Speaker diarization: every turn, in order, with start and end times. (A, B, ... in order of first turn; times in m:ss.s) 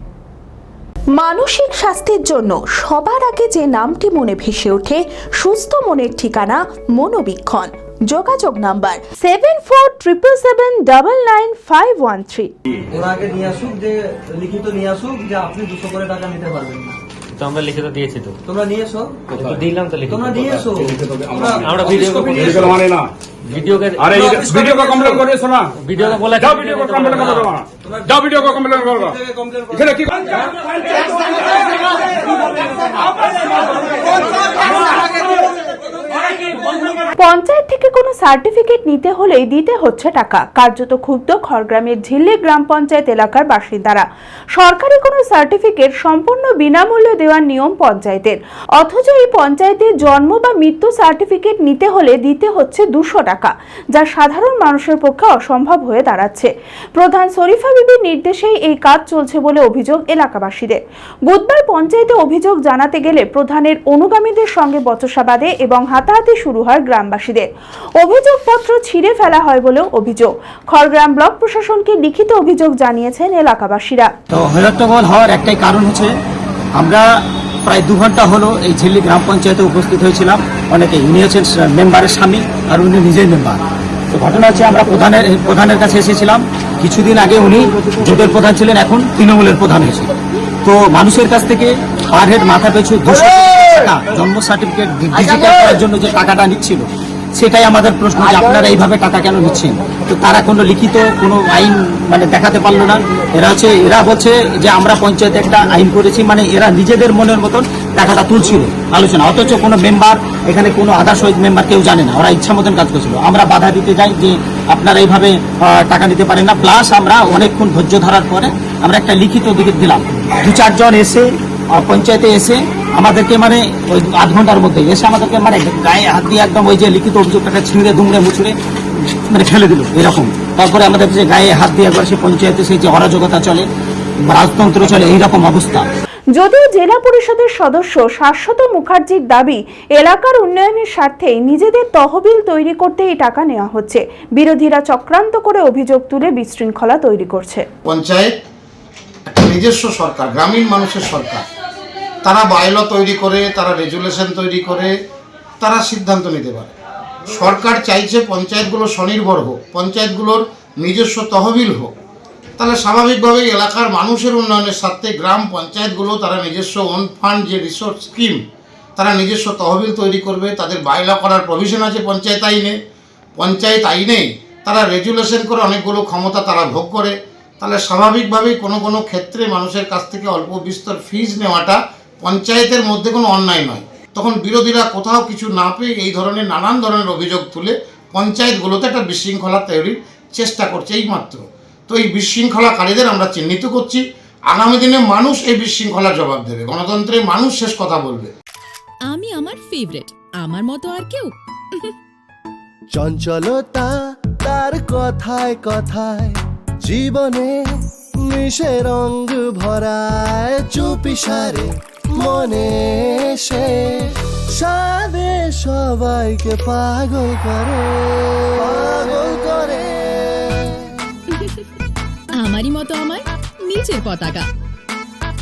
0:01.1-0:12.5 A
0:12.9-0:17.0 B
0:17.3-0:18.4 C
0:18.5-0:19.4 B
0:19.4-0:20.7 C
0:20.1-0:22.5 B
0:21.7-0:22.9 C
0:22.2-0:23.1 D
0:23.5-0:24.0 C
0:24.0-0:25.3 B
0:24.1-0:25.7 D
0:25.8-0:27.5 C
0:26.4-0:27.6 D
0:27.8-0:29.9 B
0:28.2-0:28.8 D
0:37.1-1:14.1 A
1:14.3-1:16.1 E
1:16.7-1:17.0 E
1:17.6-1:30.1 E
1:30.6-2:13.7 E
2:14.3-2:15.9 E
2:16.3-2:27.7 A
2:27.8-2:28.3 F
2:29.3-2:31.4 F
2:32.2-2:34.9 F
2:35.6-2:36.7 F
2:37.3-2:41.9 F
2:42.6-2:48.4 F
2:49.0-2:52.8 F
2:53.4-3:18.3 F
3:19.1-3:21.9 G
3:22.9-3:27.6 H
3:28.2-3:40.9 H
3:41.3-3:41.6 G
3:42.3-3:44.5 G